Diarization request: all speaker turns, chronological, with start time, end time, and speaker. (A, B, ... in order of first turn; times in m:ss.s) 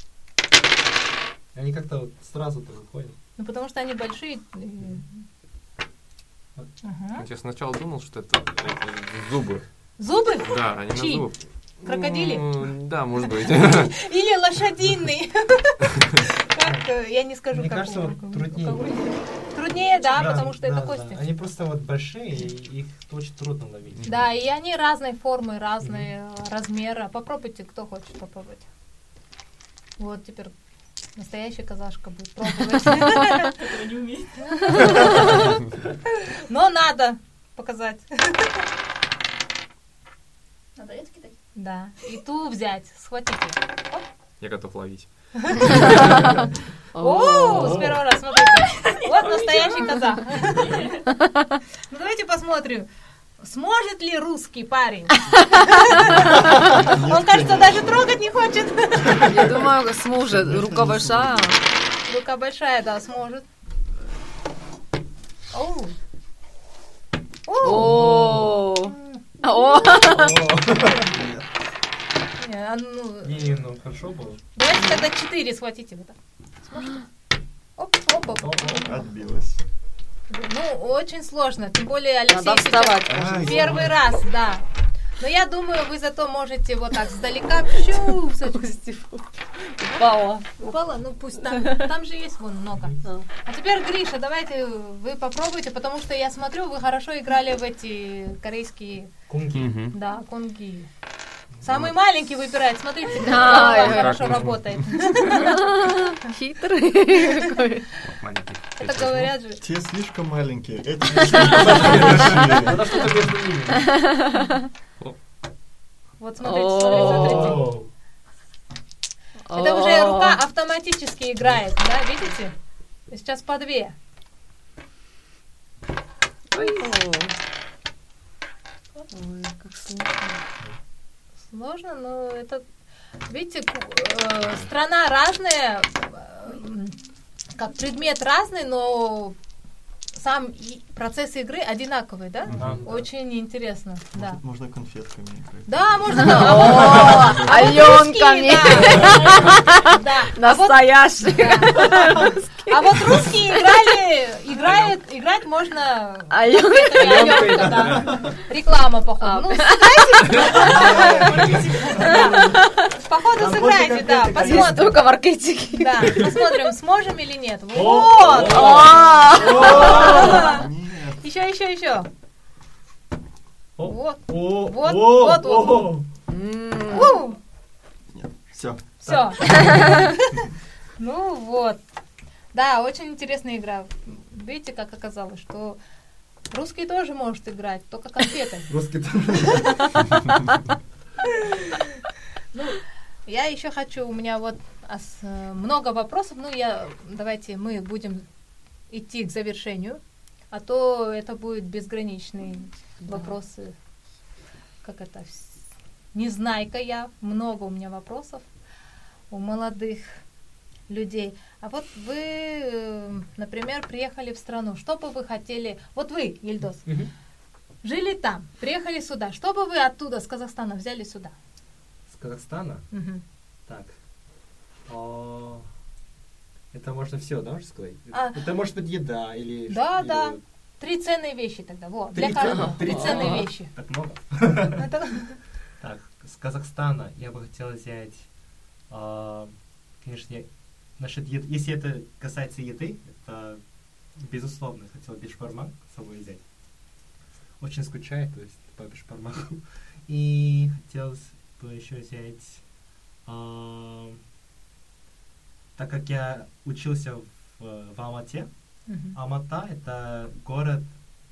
0:01.5-0:03.2 A
0:03.4-0:05.2 B
0:06.8-0:07.2 B
0:07.1-0:13.9 C
0:10.0-0:12.7 B
0:13.6-0:21.2 B
0:17.5-0:19.1 A
0:20.1-0:24.2 A
0:24.0-0:28.6 B
0:30.0-0:30.5 B
0:31.2-0:33.5 B
0:33.4-0:35.3 D
0:34.5-0:35.6 B
0:36.3-0:38.6 B
0:40.8-0:41.4 D
0:41.6-0:44.0 B
0:44.4-0:46.1 C
0:45.4-0:46.4 B
0:45.7-0:46.3 E
0:46.9-0:47.9 E
0:47.0-0:50.8 B
0:47.5-0:48.0 A
0:48.7-0:51.1 D
0:51.9-0:52.9 B
0:53.4-0:59.5 B
0:56.0-0:56.2 E
0:56.6-0:58.2 F
0:59.2-1:01.6 E
1:00.3-1:01.6 F
1:02.0-1:03.4 B
1:05.5-1:05.9 B
1:07.5-1:08.3 B
1:07.6-1:10.5 E
1:07.6-1:08.6 A
1:08.8-1:09.2 B
1:09.4-1:10.0 D
1:10.0-1:11.1 A
1:11.1-1:11.5 F
1:12.4-1:13.4 B
1:13.2-1:14.4 A
1:14.5-1:17.0 B
1:14.7-1:15.0 E
1:17.8-1:19.0 B
1:18.3-1:18.9 A
1:18.7-1:19.6 F
1:20.3-1:24.6 B
1:22.3-1:23.8 E
1:23.1-1:23.9 A
1:25.2-1:28.8 B
1:27.9-1:30.7 E
1:29.9-1:39.1 B
1:31.5-1:31.8 E
1:39.3-1:39.8 A
1:39.5-1:40.0 C
1:39.9-1:40.9 B
1:41.6-1:46.3 B
1:43.1-1:44.3 E
1:43.2-1:45.4 C
1:45.1-1:48.0 E
1:47.2-1:47.6 B
1:48.0-1:49.3 C
1:48.8-1:49.6 B
1:49.6-1:53.1 F
1:51.2-1:53.9 A
1:53.8-1:54.6 E
1:56.2-1:57.7 B
1:56.4-1:57.6 E
1:56.9-1:57.9 A
1:59.4-2:00.4 E
1:59.5-2:02.5 B
2:03.1-2:03.9 B
2:06.5-2:07.3 E
2:06.5-2:06.9 B
2:09.1-2:10.4 E
2:11.5-2:12.6 B
2:13.3-2:17.0 B
2:17.5-2:19.4 B
2:20.1-2:24.4 B
2:22.5-2:22.8 F
2:22.6-2:23.0 A
2:24.1-2:27.7 F
2:25.7-2:45.0 B
2:26.1-2:33.9 E
2:36.3-2:38.0 E
2:37.0-2:38.3 A
2:39.2-2:40.4 E
2:40.4-2:42.4 D
2:40.4-2:42.5 A
2:42.4-2:42.9 E
2:43.3-2:45.0 A
2:44.4-2:46.5 E
2:45.7-2:52.1 B
2:47.7-2:50.5 A
2:48.4-2:50.3 E
2:49.7-2:51.2 F
2:53.8-2:56.1 A
2:53.8-2:56.0 B
2:56.3-2:57.2 E
2:56.9-2:57.4 B
2:58.1-3:00.0 F
2:59.0-3:00.3 B
3:01.0-3:01.8 B
3:02.5-3:05.8 B
3:06.5-3:08.7 B
3:08.7-3:10.0 A
3:12.5-3:18.2 B
3:18.9-3:23.7 B
3:23.0-3:23.3 E
3:24.8-3:28.4 B
3:29.3-3:30.2 B
3:30.9-3:36.9 B
3:36.8-3:37.1 A
3:37.8-3:41.3 B
3:42.1-3:42.9 A
3:42.9-3:43.2 B
3:43.6-3:44.0 A
3:44.8-3:45.7 A
3:46.7-3:50.4 A
3:48.1-3:48.4 B
3:49.7-3:53.7 B
3:52.1-3:54.8 A
3:52.4-3:53.5 E
3:54.8-3:55.4 B
3:55.8-3:58.3 A
3:58.9-4:06.4 A
4:07.6-4:12.6 A
4:13.2-4:14.2 A
4:15.8-4:20.9 A
4:18.9-4:19.2 B